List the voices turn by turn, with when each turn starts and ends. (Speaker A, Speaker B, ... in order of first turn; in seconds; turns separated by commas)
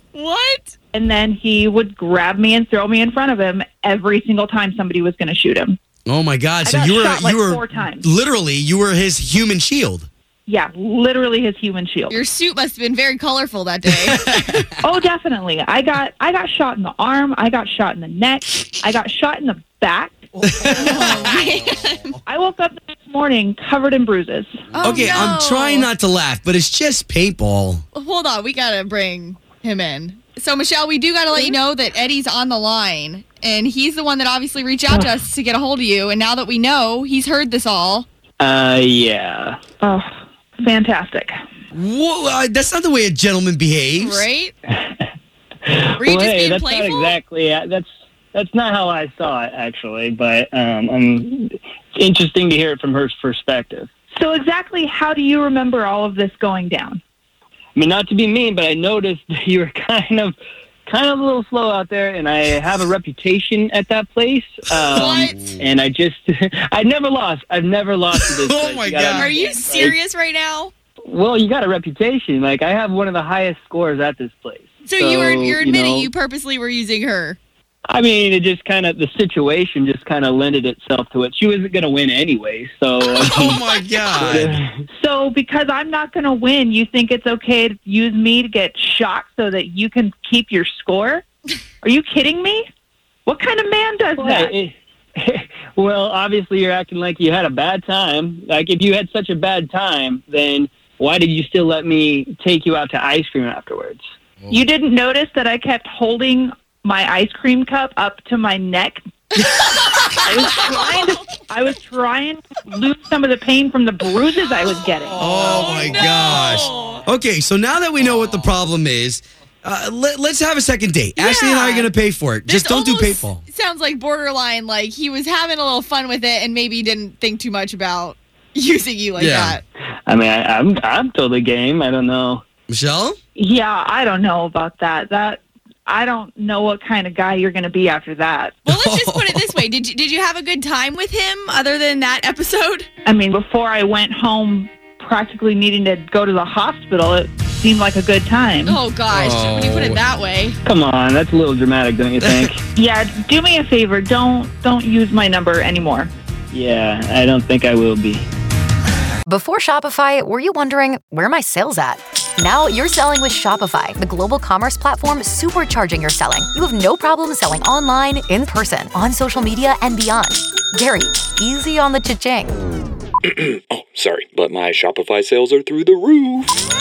Speaker A: 0.1-0.7, Speaker B: 0.9-5.8, Speaker C: 6.0-10.1, Speaker B: 6.6-8.1, Speaker B: 10.5-12.2, Speaker A: 12.1-14.2, Speaker C: 14.1-14.7, Speaker B: 14.8-20.3, Speaker C: 20.4-21.5, Speaker A: 20.8-22.2, Speaker B: 22.2-25.1, Speaker C: 24.7-27.8, Speaker A: 24.8-25.9, Speaker A: 27.9-38.1, Speaker D: 38.4-39.6, Speaker B: 39.8-40.0, Speaker B: 40.6-41.3, Speaker C: 41.7-44.2, Speaker A: 44.0-44.5, Speaker D: 44.7-45.0, Speaker D: 45.6-53.9, Speaker A: 46.0-47.2, Speaker B: 54.1-57.0, Speaker D: 57.7-60.3, Speaker D: 60.9-70.0, Speaker A: 64.9-65.4, Speaker C: 64.9-65.6, Speaker C: 68.2-69.3, Speaker A: 69.1-70.7, Speaker D: 71.0-76.1, Speaker A: 74.8-77.4, Speaker D: 77.9-84.8, Speaker C: 83.2-84.6, Speaker B: 85.0-91.2, Speaker B: 91.8-92.6, Speaker B: 93.2-94.5, Speaker D: 94.2-104.0, Speaker B: 104.5-109.0, Speaker C: 109.6-109.9, Speaker B: 110.1-115.3, Speaker A: 110.7-111.0, Speaker C: 115.2-123.4, Speaker A: 115.3-117.0, Speaker A: 121.2-121.9, Speaker A: 122.5-129.6, Speaker C: 129.2-129.6, Speaker D: 130.1-132.4, Speaker C: 132.7-133.2, Speaker B: 133.3-138.6, Speaker A: 138.6-142.9, Speaker C: 138.7-139.6, Speaker B: 143.0-148.8, Speaker A: 148.6-150.6, Speaker C: 149.1-150.0, Speaker D: 150.6-152.6, Speaker C: 152.2-152.5, Speaker B: 152.8-156.1, Speaker D: 156.5-158.2, Speaker E: 159.2-172.5, Speaker F: 173.2-176.6